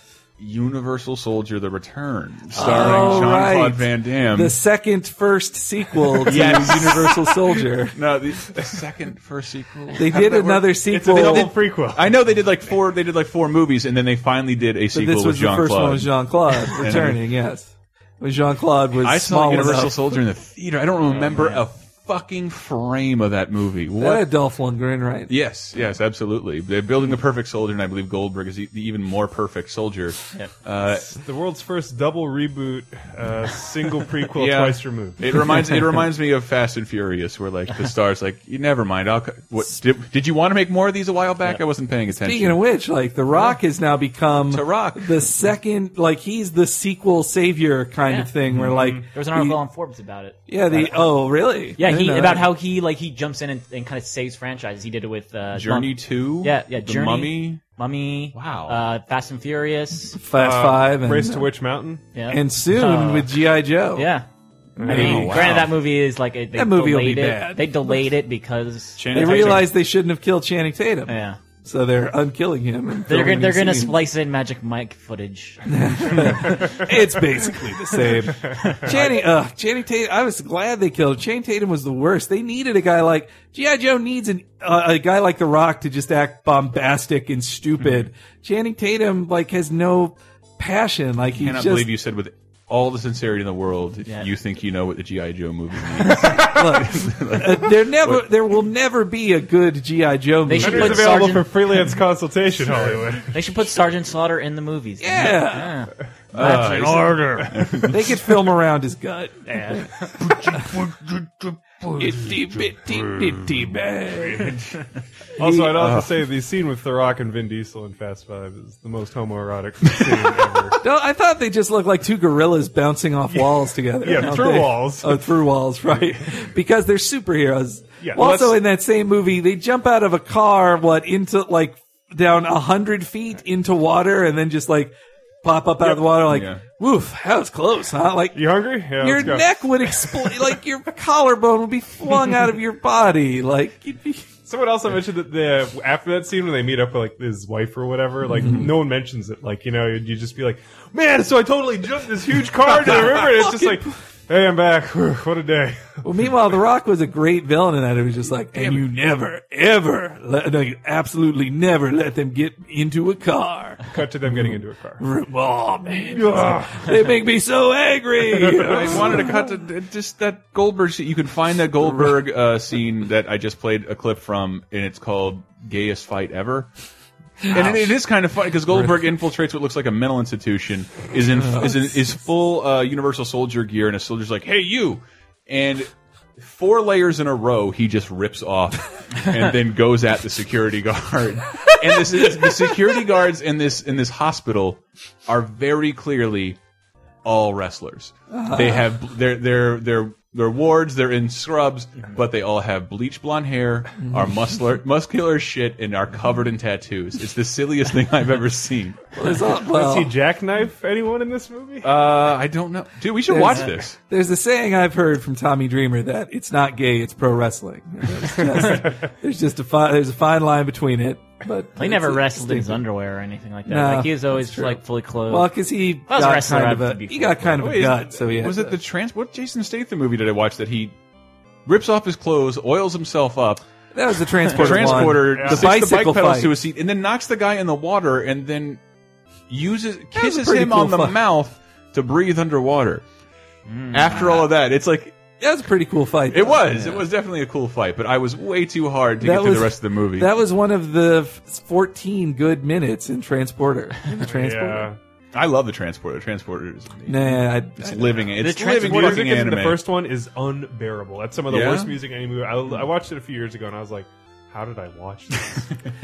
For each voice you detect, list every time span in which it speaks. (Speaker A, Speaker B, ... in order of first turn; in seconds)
Speaker A: 0.4-4.6, 6.3-7.4, 7.9-17.2, 19.0-24.3, 25.3-31.1, 34.3-42.6, 44.5-45.3, 48.5-48.8, 55.5-57.6, 58.3-58.8, 64.9-65.7, 69.0-69.7, 91.3-98.3, 106.3-108.2, 115.8-116.1, 136.3-136.6, 152.7-153.8, 158.6-158.8, 168.6-176.7, 177.5-196.6, 197.2-209.0, 211.8-214.0, 227.6-230.9, 231.7-233.6, 234.5-238.8, 239.5-243.0, 243.9-245.2, 246.3-250.3, 255.3-259.8, 261.5-262.0
Speaker B: 2.5-8.0, 10.0-11.5, 14.9-20.2, 24.0-25.3, 42.1-49.6, 50.5-52.5, 60.2-61.5, 62.3-64.1, 64.8-65.6, 66.5-68.1, 69.1-74.0, 75.7-91.9, 96.3-101.3, 105.0-105.8, 106.4-109.8, 112.0-114.5, 115.4-116.0, 120.8-144.3, 148.3-148.7, 153.2-153.8, 156.0-169.4, 171.8-172.1, 177.4-177.9, 181.4-182.0, 198.3-198.9, 204.0-204.4, 209.2-210.2, 213.3-222.8, 223.7-228.8, 233.9-236.6, 240.1-241.2, 245.4-247.1, 249.2-254.9, 257.1-258.3
Speaker C: 2.6-3.3, 21.1-21.6, 48.0-48.3, 49.1-51.1, 51.8-60.2, 62.1-63.3, 63.9-64.3, 64.8-69.7, 71.1-71.4, 73.1-76.5, 96.0-96.3, 100.5-101.6, 103.3-107.2, 109.5-110.1, 221.8-225.5, 226.1-227.7, 243.7-244.5, 258.4-259.3
Speaker D: 10.9-12.2, 31.1-35.5, 48.8-49.0, 60.4-62.0, 64.8-65.4, 78.4-79.0, 100.6-103.3, 115.4-120.8, 123.3-125.2, 128.0-128.6, 138.3-140.5, 144.5-156.0, 163.9-165.1, 166.1-166.9, 168.3-168.7, 209.6-211.9, 218.5-219.1, 235.3-235.8, 254.3-255.0, 258.8-265.7